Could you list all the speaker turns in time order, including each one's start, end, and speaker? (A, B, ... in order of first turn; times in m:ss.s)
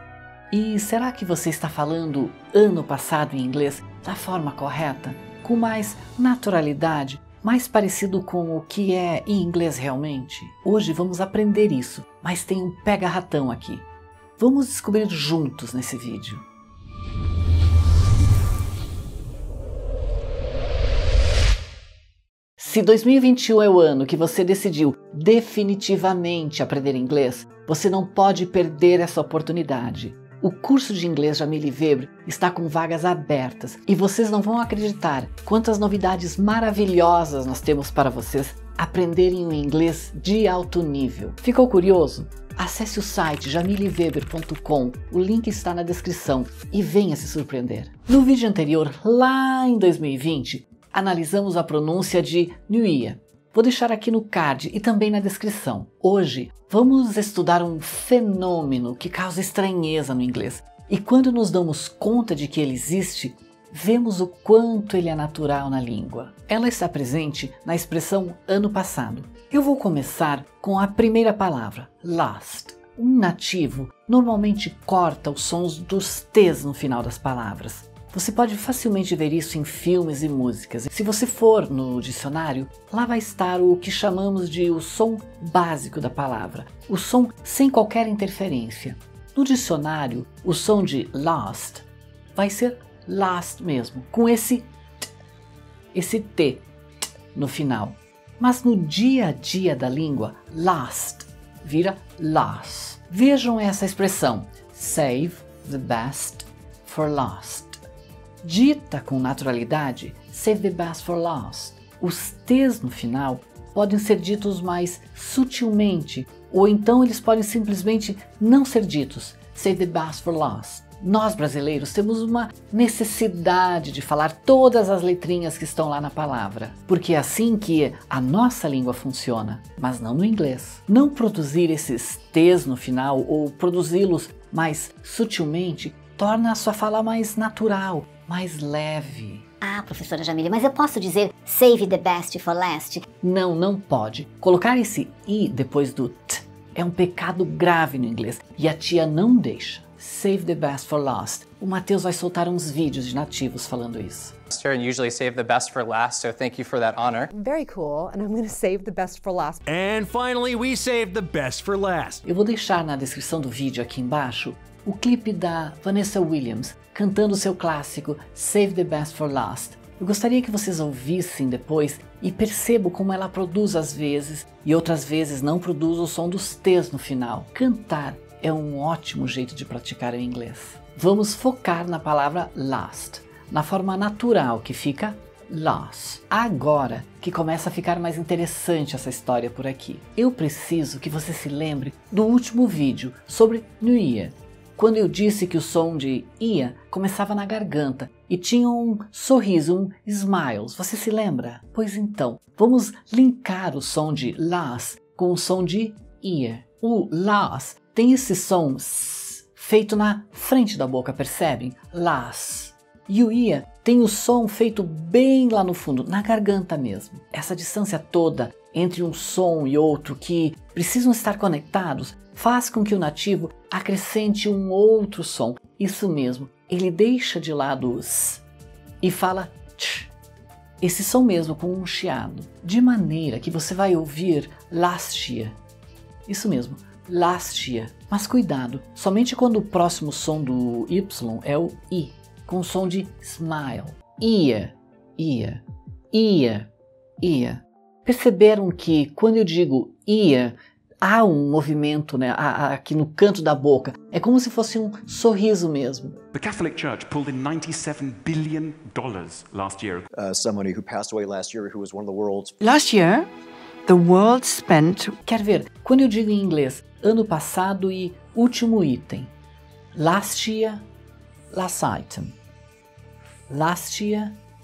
0:00.5-0:13.9 A
0:14.4-0:16.4 A
0:22.6-1:34.7 A
1:35.9-1:36.6 A
1:37.3-1:47.8 A
1:48.4-2:19.5 A
2:19.6-2:23.0 B
2:23.2-2:34.3 A
2:34.5-2:37.3 C
2:37.3-2:39.6 D
2:39.7-2:42.2 E
2:42.2-3:48.4 A
3:49.0-3:50.1 A
3:50.8-3:55.6 A
3:56.3-4:06.7 A
4:07.2-4:16.2 A
4:16.3-4:20.1 F
4:20.1-4:22.6 G
4:22.6-4:23.3 H
4:23.8-4:25.1 H
4:25.2-4:29.3 A
4:29.9-4:30.8 A
4:31.5-4:32.4 A
4:33.5-4:34.4 A